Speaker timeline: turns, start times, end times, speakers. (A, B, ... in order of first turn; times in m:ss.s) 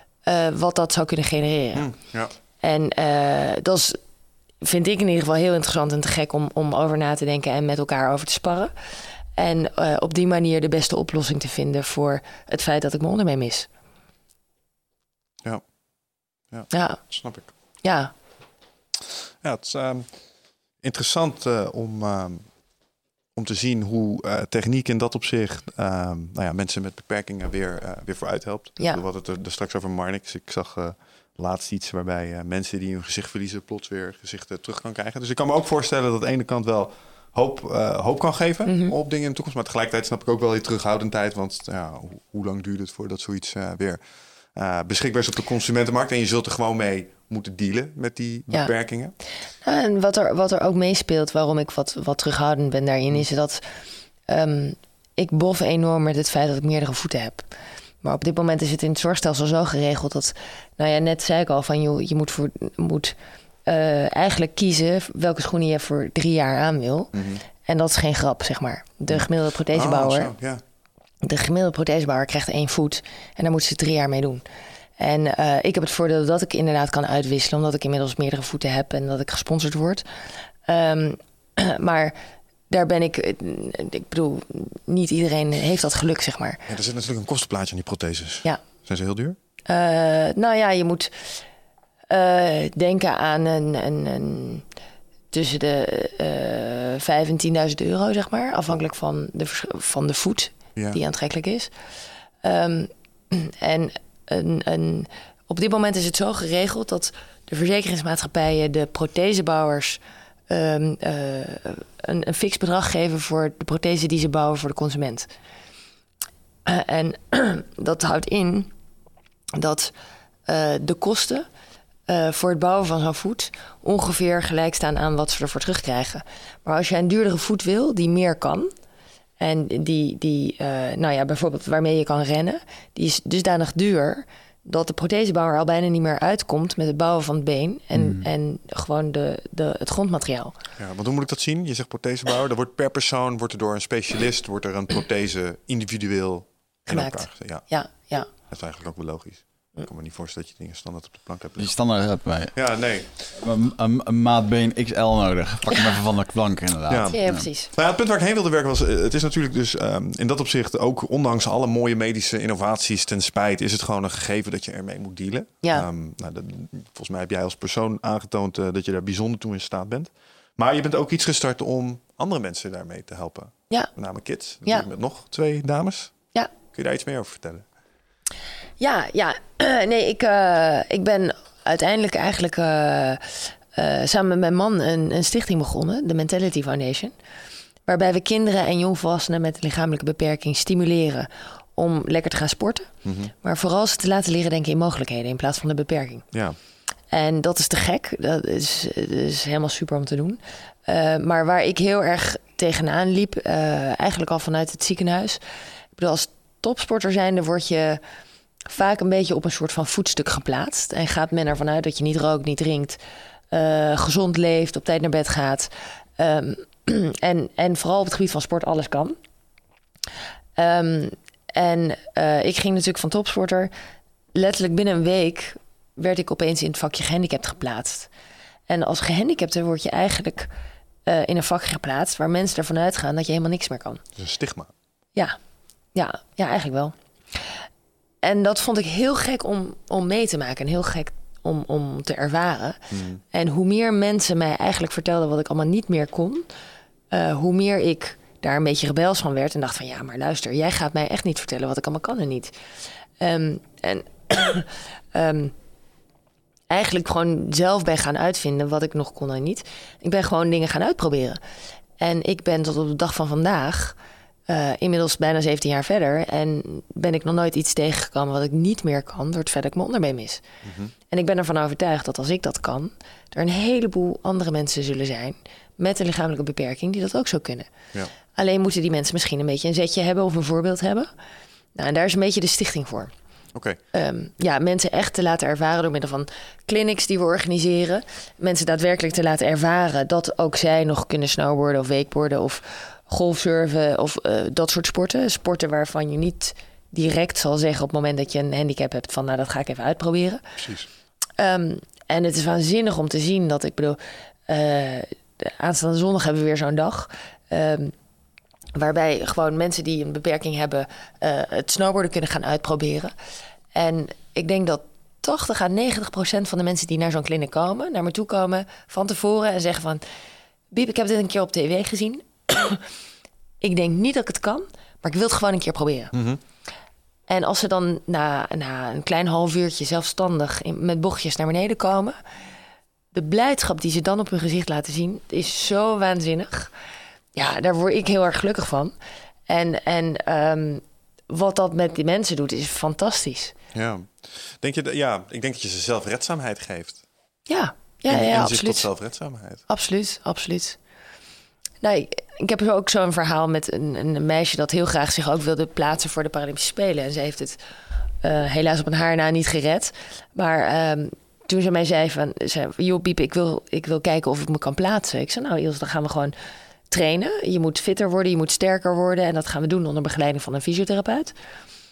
0:00.2-0:01.9 A
0:01.8-0:02.3 B
0:02.6-0:04.0 A
0:04.6-0:08.7 A
0:09.4-0:13.7 A
0:16.5-0:17.5 B
0:16.7-0:17.0 A
0:17.8-0:18.1 A
0:19.4-0:20.2 B
0:20.8-0:22.5 B
0:23.4-0:44.0 B
0:38.7-0:39.0 A
0:44.5-0:49.1 B
0:49.6-0:53.6 A
0:54.3-0:57.5 A
0:58.0-1:03.2 A
1:03.7-1:10.3 A
1:07.1-1:07.4 B
1:09.1-1:10.6 B
1:11.2-1:14.4 A
1:15.0-1:20.0 A
1:20.7-1:22.2 A
1:22.7-1:26.7 A
1:26.7-1:29.4 B
1:29.7-1:31.1 A
1:32.1-1:34.6 A
1:35.3-1:41.7 A
1:42.4-1:55.3 A
1:56.6-1:58.7 A
1:59.6-1:59.9 A
2:00.5-2:01.5 A
2:02.1-2:08.7 A
2:09.4-2:20.6 A
2:18.0-2:18.3 C
2:20.8-2:27.6 B
2:26.9-2:28.3 A
2:28.4-2:31.7 B
2:31.6-2:32.6 C
2:32.5-2:33.1 B
2:33.4-2:37.5 C
2:36.9-2:56.2 B
2:37.1-2:37.7 A
2:56.7-2:57.7 B
2:58.8-3:07.1 A
3:07.9-3:12.9 A
3:13.0-3:13.3 B
3:13.4-3:16.3 A
3:16.3-3:16.6 B
3:17.1-3:25.4 A
3:26.0-3:28.0 A
3:28.7-3:33.0 A
3:33.5-3:39.2 A
3:40.6-3:43.7 A
3:44.4-3:48.1 A
3:48.7-3:50.5 A
3:51.1-3:54.0 A
3:54.2-3:54.7 B
3:56.0-3:57.5 A
3:58.2-4:06.5 A
4:02.9-4:03.2 B
4:07.1-4:12.5 A
4:13.2-4:15.5 A
4:16.7-4:21.4 A
4:22.0-4:24.0 A
4:24.5-4:30.4 A
4:30.6-4:30.9 B
4:31.1-4:37.7 A
4:38.4-4:41.1 A
4:41.8-4:43.1 A
4:43.5-4:43.8 B
4:43.9-5:00.4 A
5:00.6-5:00.9 B
5:01.4-5:07.9 A
5:08.8-5:13.1 A
5:13.7-5:20.0 A
5:20.7-5:22.8 A
5:23.6-5:26.1 A
5:26.1-5:26.4 B
5:27.3-5:32.2 A
5:33.1-5:36.7 A
5:37.4-5:39.0 A
5:39.5-5:43.6 A
5:43.7-5:47.0 B
5:47.5-5:48.9 A
5:48.1-5:49.6 B
5:49.7-5:50.8 A
5:51.8-5:57.6 A
5:58.2-6:06.3 A
6:06.9-6:11.4 A